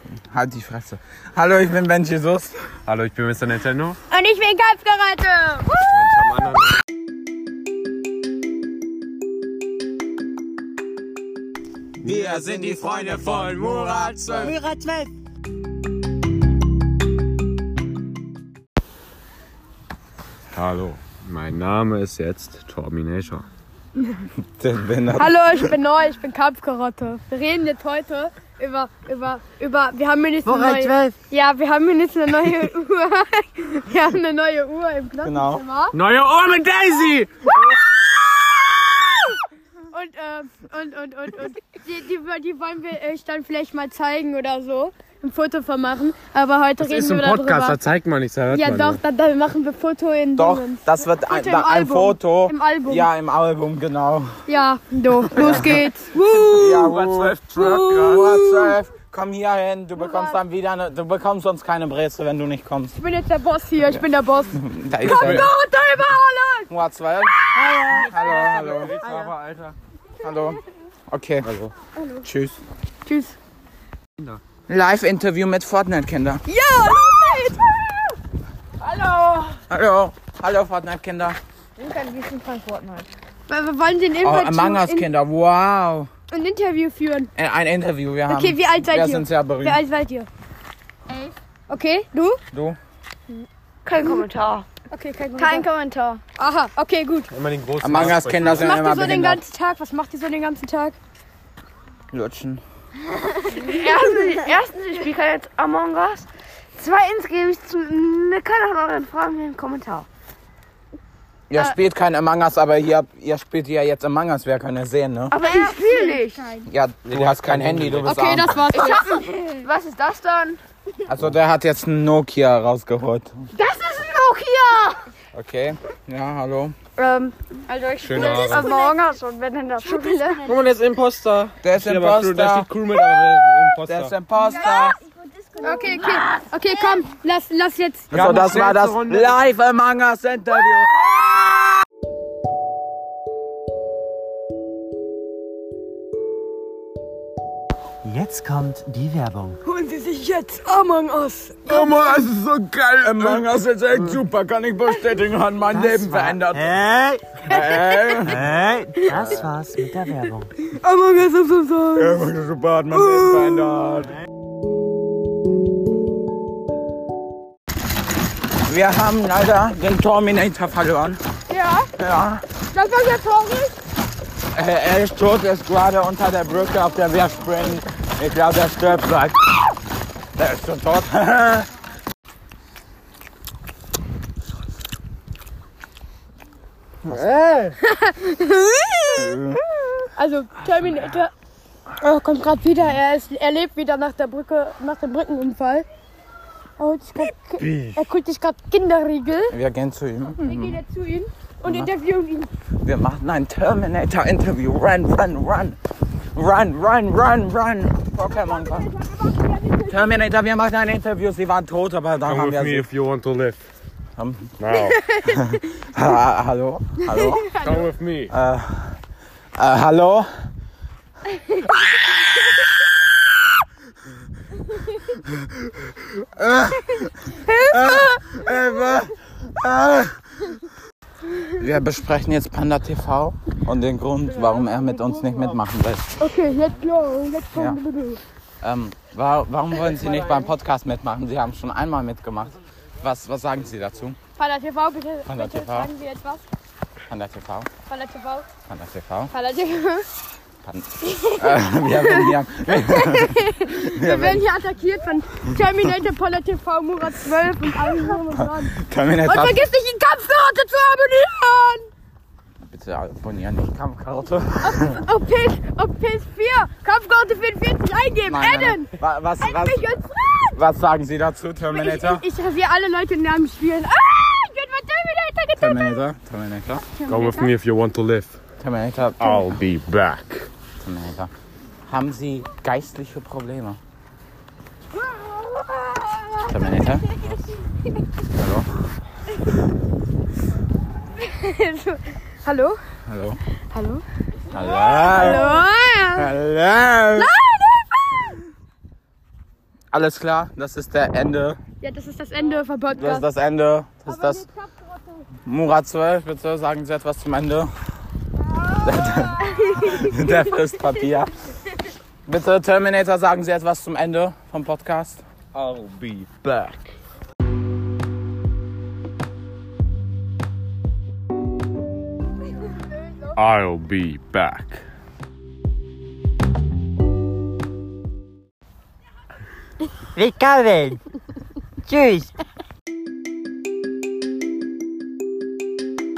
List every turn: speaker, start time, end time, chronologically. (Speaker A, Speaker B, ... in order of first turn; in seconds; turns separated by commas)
Speaker A: 0.3-2.5, Speaker B: 2.9-4.0, Speaker C: 4.1-5.7, Speaker B: 5.8-6.7, Speaker A: 12.0-14.6, Speaker B: 12.1-14.5, Speaker D: 14.3-15.1, Speaker A: 20.5-21.0, Speaker B: 21.0-23.4, Speaker A: 24.6-25.7, Speaker C: 25.1-36.0, Speaker D: 30.4-31.1, Speaker A: 35.2-35.6, Speaker B: 35.9-37.5, Speaker C: 39.9-47.8, Speaker B: 46.8-49.0, Speaker C: 48.5-53.1, Speaker A: 50.4-54.3, Speaker C: 54.5-57.0, Speaker A: 55.3-55.8, Speaker A: 56.5-62.9, Speaker B: 56.8-57.8, Speaker C: 57.6-58.7, Speaker C: 60.0-60.4, Speaker C: 62.9-66.7, Speaker A: 63.8-65.5, Speaker A: 66.7-69.0, Speaker D: 67.5-68.2, Speaker B: 68.0-69.7, Speaker D: 69.0-69.3, Speaker A: 70.2-71.5, Speaker B: 71.5-71.7, Speaker C: 72.0-72.3, Speaker A: 72.2-72.6, Speaker C: 73.0-73.4, Speaker A: 74.7-76.4, Speaker C: 76.5-78.1, Speaker E: 78.8-79.6, Speaker A: 79.7-81.4, Speaker E: 81.8-83.1, Speaker C: 83.5-85.1, Speaker A: 84.2-86.1, Speaker C: 86.3-87.3, Speaker A: 87.3-89.8, Speaker C: 88.3-90.3, Speaker C: 91.7-92.4, Speaker A: 92.5-92.8, Speaker E: 93.8-94.7, Speaker C: 94.9-95.7, Speaker E: 95.4-96.2, Speaker C: 96.3-97.3, Speaker B: 97.3-98.8, Speaker A: 97.8-99.4, Speaker C: 98.5-101.0, Speaker A: 102.1-102.6, Speaker E: 103.4-110.1, Speaker A: 111.5-115.4, Speaker E: 115.3-116.5, Speaker C: 115.4-116.6, Speaker A: 116.6-118.6, Speaker B: 117.1-118.3, Speaker C: 118.0-119.5, Speaker E: 118.7-120.6, Speaker A: 121.1-123.3, Speaker E: 123.5-125.0, Speaker A: 125.3-126.7, Speaker E: 127.0-130.5, Speaker B: 128.0-128.7, Speaker C: 128.1-129.1, Speaker C: 129.8-130.5, Speaker B: 130.4-134.1, Speaker A: 131.6-132.7, Speaker A: 133.8-135.0, Speaker E: 134.4-137.0, Speaker C: 135.6-138.1, Speaker A: 138.1-141.7, Speaker B: 138.1-139.4, Speaker D: 148.0-149.6, Speaker C: 149.6-151.9, Speaker B: 151.7-153.4, Speaker A: 151.9-156.8, Speaker D: 155.7-157.2, Speaker A: 157.4-158.5, Speaker C: 157.5-158.2, Speaker D: 158.2-160.5, Speaker C: 159.0-159.4, Speaker C: 160.6-162.2, Speaker A: 161.9-164.2, Speaker C: 162.9-163.7, Speaker A: 168.7-171.2, Speaker E: 171.5-171.8, Speaker A: 172.0-172.4, Speaker C: 172.7-173.7, Speaker A: 174.5-179.7, Speaker A: 180.3-181.7, Speaker B: 187.1-187.8, Speaker C: 187.8-189.4, Speaker A: 189.2-189.6, Speaker C: 190.1-191.3, Speaker C: 192.0-195.8, Speaker C: 196.8-199.6, Speaker B: 197.7-198.0, Speaker A: 199.5-200.8, Speaker C: 200.4-202.5, Speaker A: 201.6-201.9, Speaker A: 202.8-205.8, Speaker A: 206.3-208.9, Speaker C: 208.2-210.1, Speaker A: 209.9-212.9, Speaker B: 212.3-213.6, Speaker A: 214.2-214.5, Speaker B: 214.6-215.0, Speaker C: 214.8-215.6, Speaker A: 215.2-217.5, Speaker C: 217.0-217.9, Speaker B: 217.5-218.3, Speaker A: 218.3-219.0, Speaker A: 219.6-220.3, Speaker A: 225.1-230.2, Speaker C: 227.3-228.4, Speaker A: 231.5-236.0, Speaker C: 236.2-238.2, Speaker A: 238.6-244.2, Speaker C: 244.3-246.4, Speaker A: 245.3-245.9, Speaker A: 247.1-247.7, Speaker C: 247.9-248.5, Speaker A: 248.7-249.3, Speaker C: 249.3-250.1, Speaker A: 250.6-254.4, Speaker C: 251.0-261.9, Speaker A: 258.4-259.6, Speaker A: 262.6-265.0, Speaker C: 264.6-270.6, Speaker A: 268.2-272.2, Speaker C: 271.7-276.0, Speaker A: 275.6-276.8, Speaker C: 276.8-277.5, Speaker B: 277.1-278.4, Speaker A: 278.6-279.5, Speaker B: 279.2-280.5, Speaker A: 280.8-281.3, Speaker A: 281.9-283.8, Speaker C: 285.2-286.9, Speaker A: 286.5-287.1, Speaker A: 288.3-288.7, Speaker C: 291.2-292.8, Speaker A: 293.1-293.4, Speaker C: 293.7-296.3, Speaker A: 294.5-295.6, Speaker A: 296.1-297.3, Speaker C: 297.2-298.4, Speaker A: 299.9-301.6, Speaker C: 301.8-303.3, Speaker A: 302.9-304.4, Speaker C: 304.1-304.7, Speaker A: 305.4-307.7, Speaker A: 308.8-311.3, Speaker C: 309.4-310.4, Speaker A: 312.2-315.2, Speaker B: 315.5-316.9, Speaker B: 323.4-324.8, Speaker D: 330.1-331.0, Speaker D: 331.9-332.3